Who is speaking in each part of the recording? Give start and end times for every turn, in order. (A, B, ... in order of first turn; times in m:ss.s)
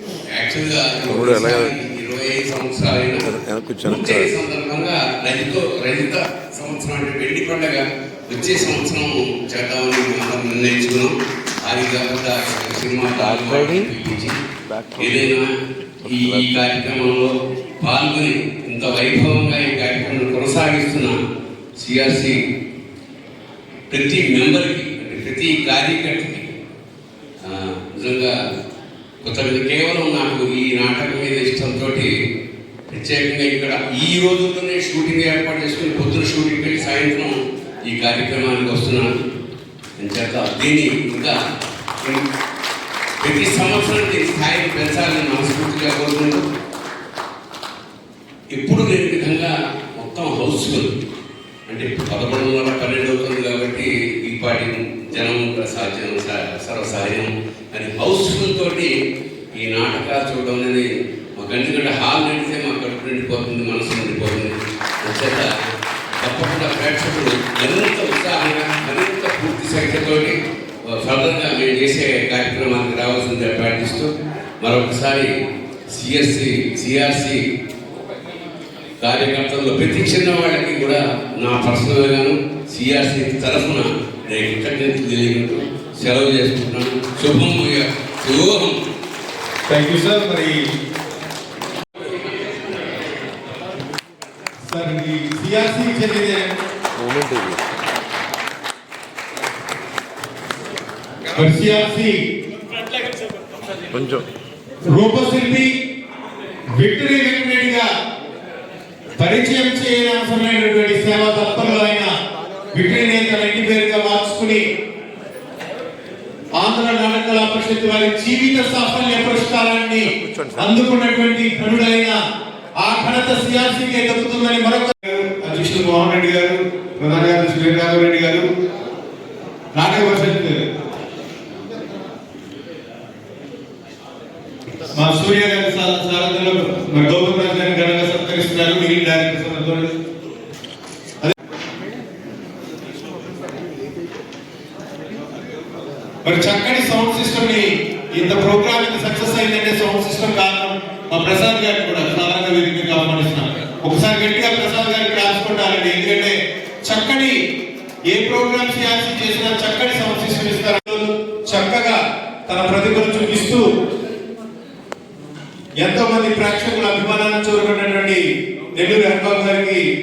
0:00.3-0:15.5 A
0:01.3-0:01.6 B
0:03.4-0:04.2 B
0:16.0-0:21.1 A
0:21.8-0:22.3 A
0:23.9-0:26.5 A
0:27.4-0:28.3 A
0:29.2-0:32.1 A
0:32.9-0:37.3 A
0:37.9-0:39.1 A
0:40.0-0:41.4 A
0:43.2-0:46.4 A
0:48.5-0:50.9 A
0:51.7-0:58.9 A
0:59.6-1:00.8 A
1:01.4-1:05.5 A
1:06.2-1:10.4 A
1:10.9-1:14.1 A
1:14.6-1:15.3 A
1:15.9-1:17.4 A
1:19.0-1:28.8 A
1:29.7-1:30.6 C
1:34.6-1:36.6 C
1:37.0-1:37.6 B
1:41.3-1:42.2 C
1:43.9-1:44.3 B
1:44.9-1:45.7 C
1:46.8-1:47.8 C
1:49.2-1:52.1 C
1:52.7-1:54.6 C
1:56.6-2:02.1 C
2:02.8-2:08.4 C
2:09.7-2:10.6 C
2:14.9-2:19.9 C
2:26.2-2:36.4 C
2:36.9-2:37.3 C
2:38.1-2:43.6 C
2:45.8-2:48.2 C
2:48.8-2:49.8 C